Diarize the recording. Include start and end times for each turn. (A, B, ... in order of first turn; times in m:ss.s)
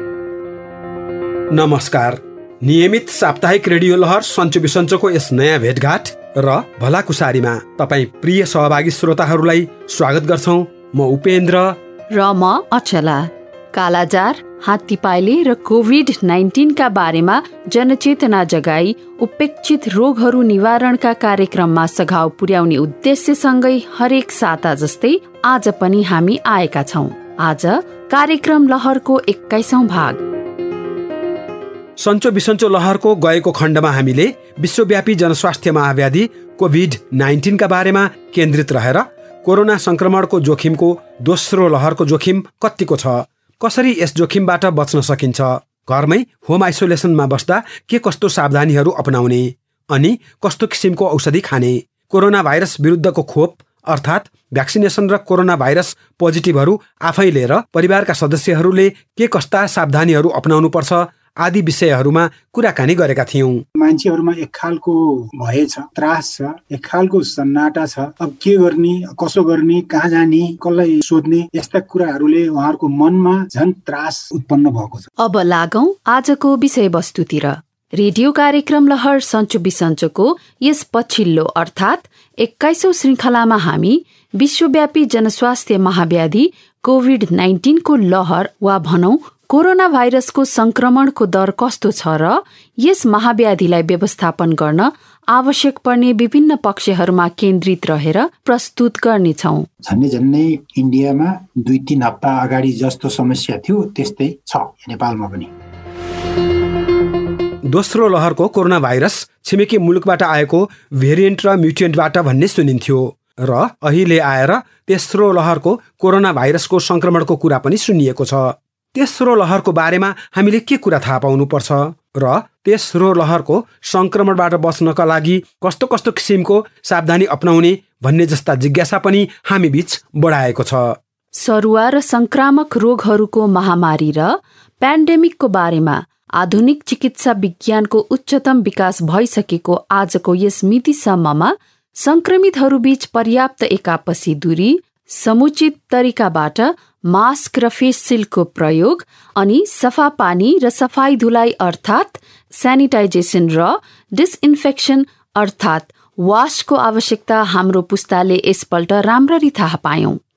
0:01.5-0:11.8 A
0:12.1-0:30.2 B
0:32.0-1:03.6 A
1:03.8-1:15.1 C
1:15.2-1:39.7 B
1:39.8-1:45.5 C
1:47.7-2:11.0 A
2:11.3-2:40.2 B